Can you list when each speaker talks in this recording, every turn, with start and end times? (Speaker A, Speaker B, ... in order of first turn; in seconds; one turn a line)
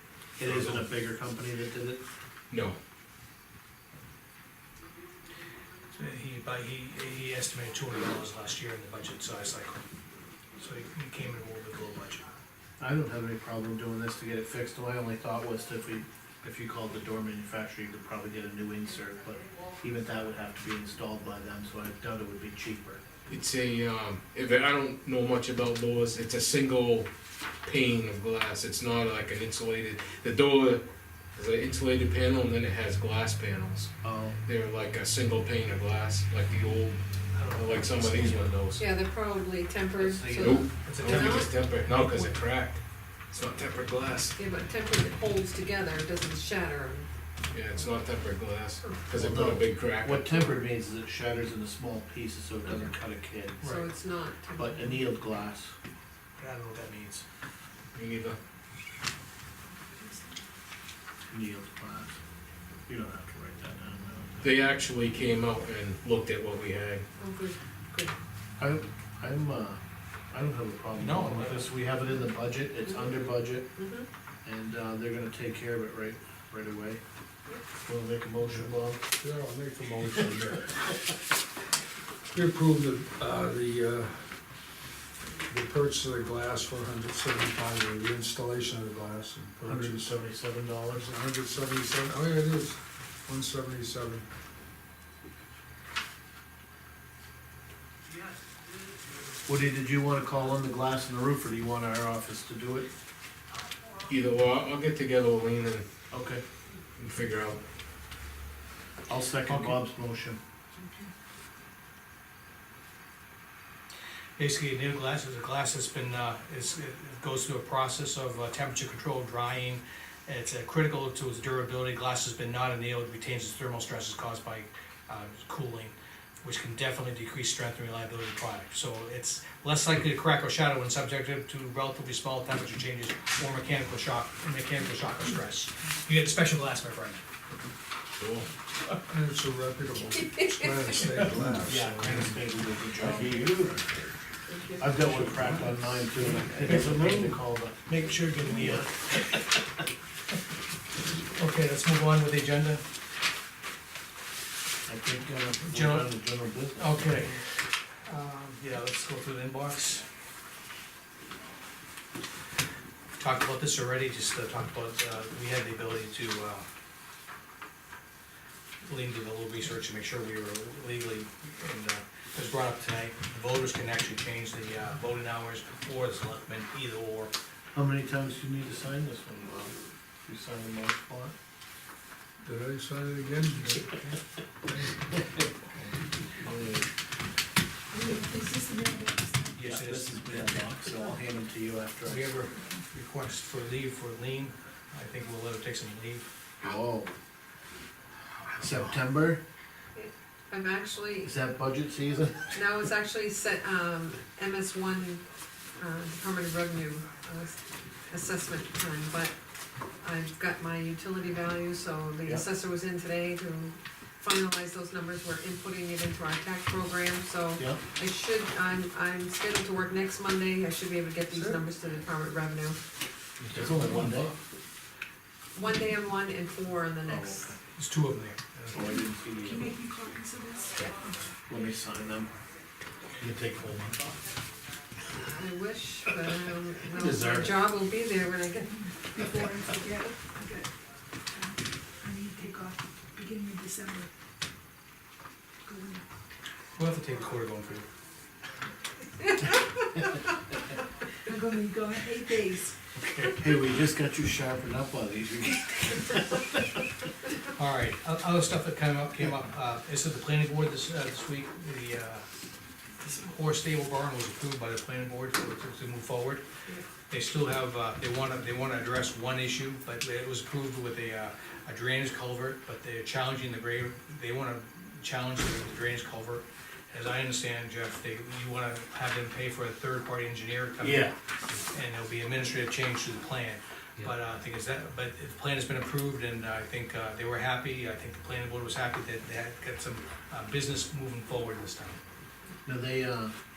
Speaker A: 0.4-2.0
Speaker B: 0.4-0.8
Speaker B: 2.5-2.8
Speaker C: 5.9-9.8
Speaker C: 10.6-12.2
Speaker A: 12.8-23.0
Speaker B: 23.3-27.1
Speaker B: 27.6-30.8
Speaker B: 31.4-33.9
Speaker A: 34.0-34.4
Speaker B: 34.5-37.0
Speaker C: 37.3-38.6
Speaker B: 37.5-38.9
Speaker D: 38.8-41.5
Speaker A: 40.0-40.7
Speaker B: 40.4-44.4
Speaker C: 40.7-42.3
Speaker D: 44.4-47.1
Speaker B: 47.5-50.5
Speaker D: 48.8-49.1
Speaker A: 49.1-53.6
Speaker D: 52.6-52.9
Speaker C: 53.6-53.9
Speaker D: 53.6-54.9
Speaker A: 54.5-55.8
Speaker C: 56.4-57.2
Speaker B: 57.9-58.4
Speaker A: 61.3-62.2
Speaker A: 62.9-64.5
Speaker B: 64.4-67.1
Speaker D: 67.2-68.1
Speaker A: 68.6-69.8
Speaker A: 70.3-73.8
Speaker C: 71.0-71.7
Speaker D: 72.9-73.1
Speaker D: 73.8-74.1
Speaker A: 74.5-77.0
Speaker A: 77.8-79.0
Speaker E: 79.2-80.8
Speaker E: 82.3-84.2
Speaker E: 85.5-90.1
Speaker A: 89.6-91.1
Speaker E: 91.0-94.3
Speaker A: 99.5-102.9
Speaker B: 104.1-105.9
Speaker A: 106.1-106.4
Speaker B: 107.0-107.6
Speaker A: 109.1-110.4
Speaker C: 109.5-109.8
Speaker C: 114.4-137.2
Speaker B: 138.2-138.5
Speaker E: 139.1-142.3
Speaker D: 140.3-140.9
Speaker A: 141.6-143.8
Speaker D: 143.2-143.5
Speaker D: 144.4-144.9
Speaker A: 144.8-149.4
Speaker E: 145.1-147.3
Speaker C: 147.9-148.7
Speaker C: 151.3-152.8
Speaker A: 154.9-157.3
Speaker C: 155.7-156.1
Speaker C: 156.8-157.4
Speaker C: 158.1-160.0
Speaker C: 163.2-166.7
Speaker C: 168.8-177.3
Speaker A: 177.7-179.7
Speaker A: 180.2-181.3
Speaker E: 182.4-184.1
Speaker A: 186.3-186.9
Speaker F: 187.9-189.6
Speaker C: 189.5-190.6
Speaker A: 189.6-192.3
Speaker C: 192.0-196.3
Speaker A: 196.6-197.1
Speaker C: 198.4-198.9
Speaker A: 198.6-199.4
Speaker D: 199.9-201.3
Speaker A: 201.2-202.5
Speaker D: 202.5-205.2
Speaker D: 205.8-207.5
Speaker D: 208.1-209.3
Speaker D: 210.0-222.8
Speaker A: 217.6-217.8
Speaker A: 223.5-224.3
Speaker D: 225.5-227.6
Speaker A: 227.0-227.6
Speaker C: 227.6-228.9
Speaker A: 228.7-229.8
Speaker F: 229.4-231.2
Speaker D: 230.8-231.0
Speaker A: 231.5-232.3
Speaker A: 233.2-234.1
Speaker D: 235.2-238.8
Speaker A: 236.9-237.6
Speaker F: 238.6-240.7
Speaker F: 241.3-244.1
Speaker F: 245.6-246.0
Speaker C: 246.8-247.9
Speaker D: 249.3-249.6
Speaker F: 251.2-252.8
Speaker A: 252.9-256.6
Speaker C: 257.6-262.2
Speaker C: 263.0-266.4
Speaker C: 267.1-281.1
Speaker A: 280.8-281.1
Speaker C: 281.7-292.0
Speaker A: 292.6-293.3